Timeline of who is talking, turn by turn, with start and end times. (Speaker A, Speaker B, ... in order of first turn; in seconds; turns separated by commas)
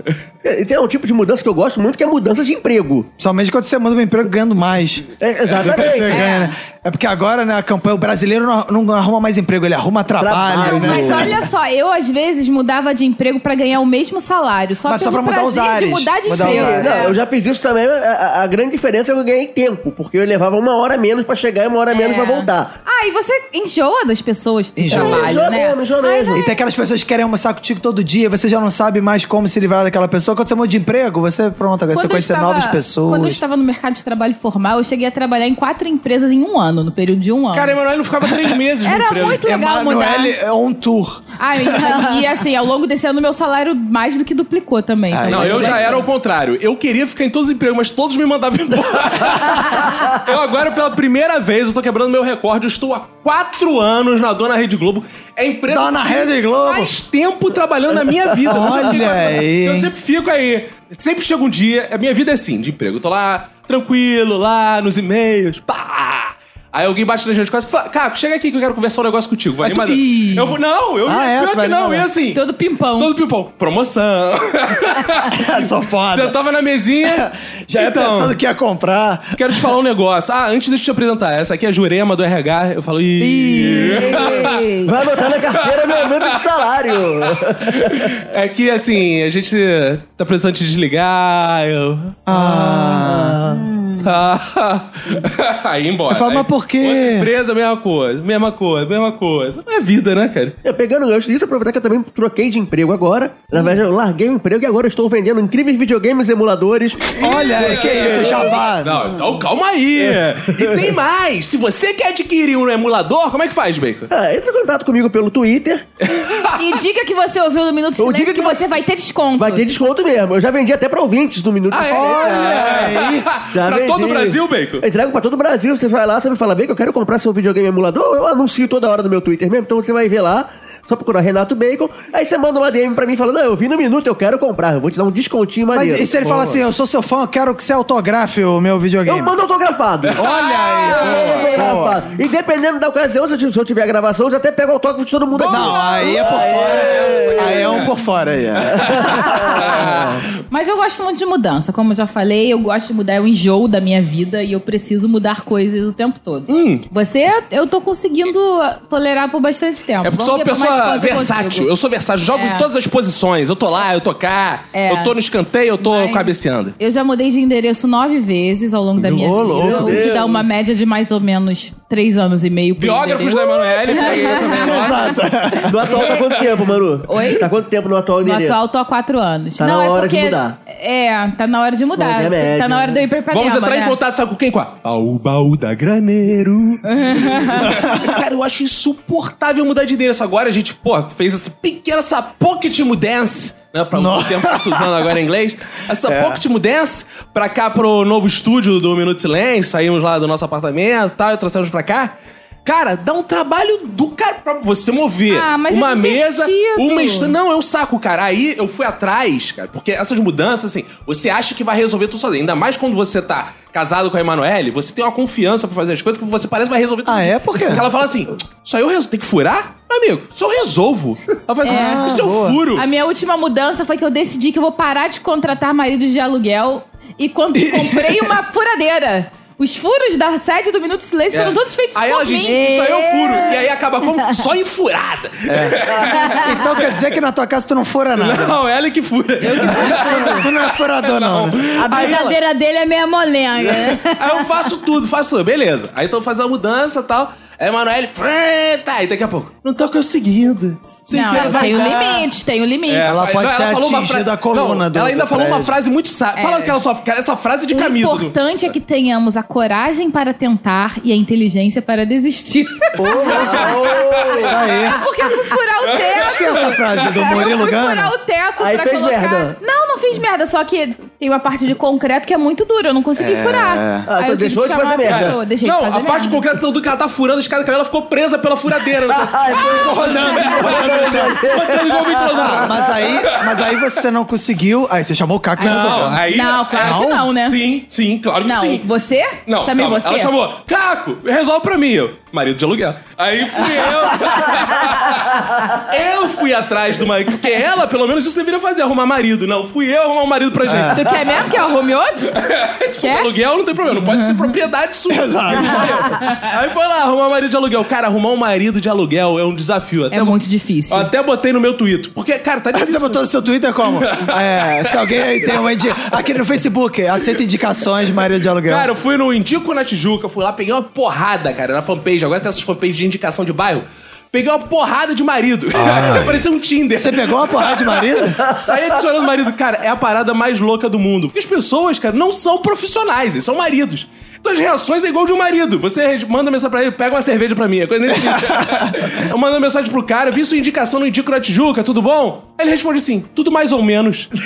Speaker A: 0.4-3.1, Speaker B: 3.2-11.4, Speaker A: 5.2-6.3, Speaker C: 6.1-6.5, Speaker A: 10.2-11.4, Speaker C: 10.6-17.2, Speaker B: 14.8-17.1, Speaker A: 16.4-22.7, Speaker C: 21.9-26.6, Speaker B: 24.8-25.4, Speaker A: 24.9-26.4, Speaker B: 26.3-33.4, Speaker C: 31.9-37.8, Speaker D: 37.5-39.4, Speaker C: 38.8-40.4, Speaker B: 39.3-42.0, Speaker C: 41.4-46.0, Speaker B: 45.1-46.1, Speaker D: 45.3-72.4, Speaker B: 55.7-56.9, Speaker B: 58.5-59.9, Speaker B: 69.6-72.1, Speaker C: 72.3-73.1, Speaker D: 73.0-78.3, Speaker B: 75.3-76.3, Speaker B: 77.0-79.5, Speaker D: 79.3-84.6, Speaker B: 83.2-84.3, Speaker A: 84.0-88.2, Speaker E: 84.1-84.9, Speaker D: 85.5-86.4, Speaker D: 87.7-92.2, Speaker B: 92.2-93.4, Speaker A: 92.3-93.6, Speaker E: 93.6-94.0, Speaker D: 94.0-100.6, Speaker B: 96.1-97.3, Speaker A: 100.6-108.6, Speaker B: 107.2-109.0, Speaker D: 107.2-114.1, Speaker A: 110.0-110.9, Speaker A: 114.1-115.9, Speaker D: 116.0-116.6, Speaker C: 116.5-119.7, Speaker A: 118.0-118.7, Speaker A: 119.4-122.9, Speaker D: 121.7-124.8, Speaker B: 121.8-123.3, Speaker A: 123.5-136.6, Speaker B: 135.7-139.3, Speaker A: 139.1-140.2, Speaker D: 140.0-141.5, Speaker B: 140.2-142.0, Speaker A: 140.8-147.8, Speaker D: 145.3-147.9, Speaker B: 145.5-149.6, Speaker D: 148.6-150.3, Speaker A: 148.7-150.2, Speaker C: 150.5-161.7, Speaker D: 156.5-156.8, Speaker D: 160.0-166.8, Speaker C: 162.3-162.7, Speaker C: 164.7-165.1, Speaker C: 165.8-175.1, Speaker B: 169.0-170.1, Speaker A: 169.5-170.4, Speaker D: 172.8-175.1, Speaker B: 174.5-175.9, Speaker A: 175.6-178.6, Speaker D: 175.9-176.3, Speaker C: 177.0-177.5, Speaker C: 178.2-184.0, Speaker A: 179.6-180.6, Speaker A: 182.0-183.0, Speaker D: 183.3-202.1, Speaker C: 186.8-187.7, Speaker B: 187.7-188.1, Speaker B: 193.9-195.1, Speaker B: 196.0-196.4, Speaker D: 202.6-222.8, Speaker C: 205.3-207.3, Speaker B: 217.0-217.9, Speaker C: 221.6-222.1, Speaker B: 221.6-222.6, Speaker C: 222.7-232.6, Speaker B: 227.5-228.3, Speaker D: 231.3-236.9, Speaker E: 232.4-233.7, Speaker B: 235.5-238.6, Speaker E: 236.2-236.5, Speaker D: 238.2-242.4, Speaker C: 239.4-240.5, Speaker B: 239.6-241.7, Speaker E: 241.8-244.5, Speaker D: 243.6-252.2, Speaker C: 251.1-253.2, Speaker E: 251.3-252.0, Speaker D: 252.9-258.3, Speaker B: 253.1-255.7, Speaker C: 256.4-256.8, Speaker C: 257.7-263.6, Speaker B: 263.0-265.0, Speaker A: 263.1-264.6, Speaker D: 263.4-264.6, Speaker C: 264.9-276.4, Speaker D: 265.9-267.2, Speaker B: 266.2-268.1, Speaker A: 268.6-269.6, Speaker B: 273.2-274.1, Speaker A: 274.1-275.4, Speaker D: 275.0-283.9, Speaker A: 279.0-282.7, Speaker B: 279.5-281.4, Speaker B: 282.3-286.2, Speaker C: 285.6-287.6, Speaker D: 285.6-288.9, Speaker B: 286.8-287.3, Speaker C: 288.4-290.3, Speaker D: 289.4-301.2, Speaker B: 300.6-301.0, Speaker C: 300.9-302.4, Speaker D: 302.3-313.2, Speaker C: 303.0-303.3, Speaker C: 303.9-304.5, Speaker B: 305.1-306.1, Speaker C: 310.1-311.1, Speaker B: 312.7-318.9, Speaker D: 313.9-316.1, Speaker D: 318.6-344.3, Speaker B: 326.9-328.4